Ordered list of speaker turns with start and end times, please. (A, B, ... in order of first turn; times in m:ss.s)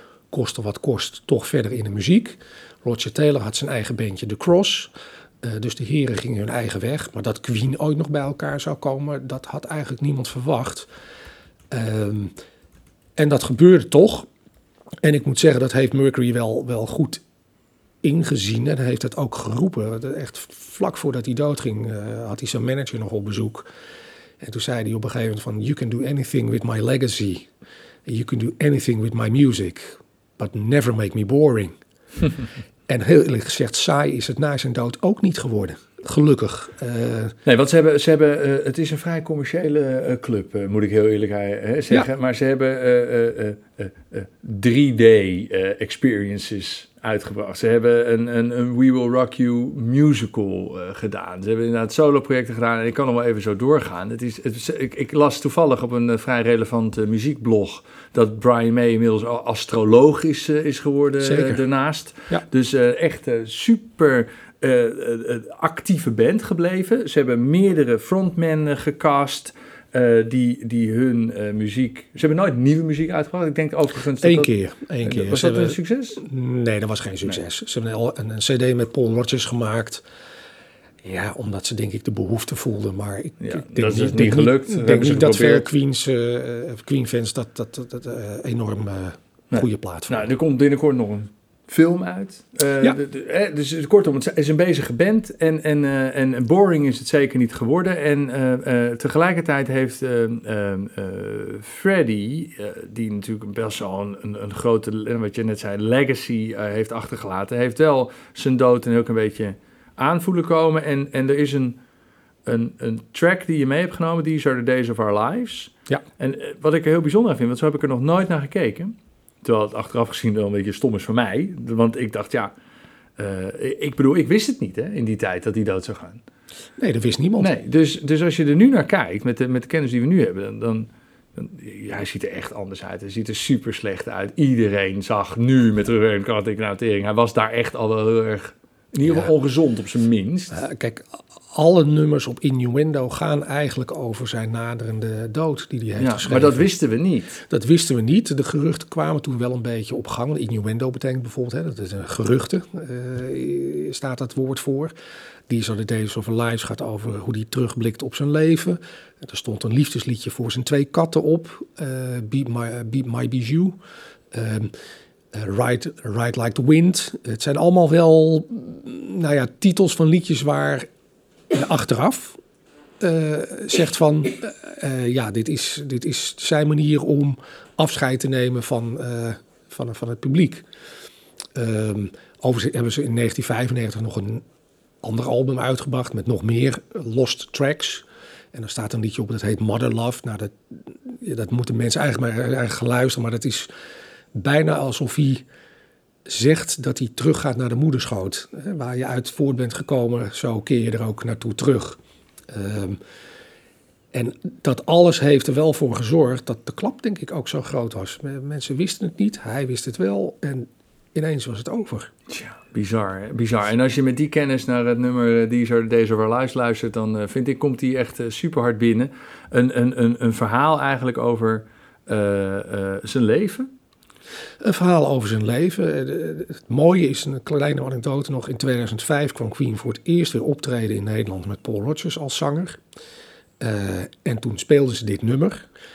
0:00.3-0:04.9 A
0:05.4-0:10.9 A
0:11.7-0:12.3 A
0:13.2-0:14.3 A
0:15.0-0:17.2 A
0:18.0-0:23.7 A
0:24.4-0:27.5 A
0:28.0-0:31.7 A
0:32.9-0:37.4 A
0:37.4-1:14.5 B
1:01.2-1:01.6 A
1:14.2-1:20.0 A
1:15.0-1:16.2 B
1:21.0-1:30.3 A
1:23.4-1:25.7 B
1:29.5-1:51.8 B
1:52.4-2:02.5 B
2:03.2-2:06.2 B
2:06.8-2:07.5 A
2:07.4-2:20.6 B
2:19.0-2:19.3 A
2:20.5-2:26.7 A
2:26.0-2:27.4 B
2:27.5-2:34.9 A
2:35.5-2:43.8 A
2:44.3-2:44.7 A
2:45.3-2:50.9 A
2:51.5-2:52.4 A
2:53.0-3:00.6 A
3:01.5-3:04.4 A
3:05.0-3:13.7 A
3:14.3-3:15.4 A
3:16.2-3:23.0 A
3:24.1-3:32.1 A
3:32.3-3:43.7 B
3:44.6-3:52.8 A
3:53.6-3:55.7 A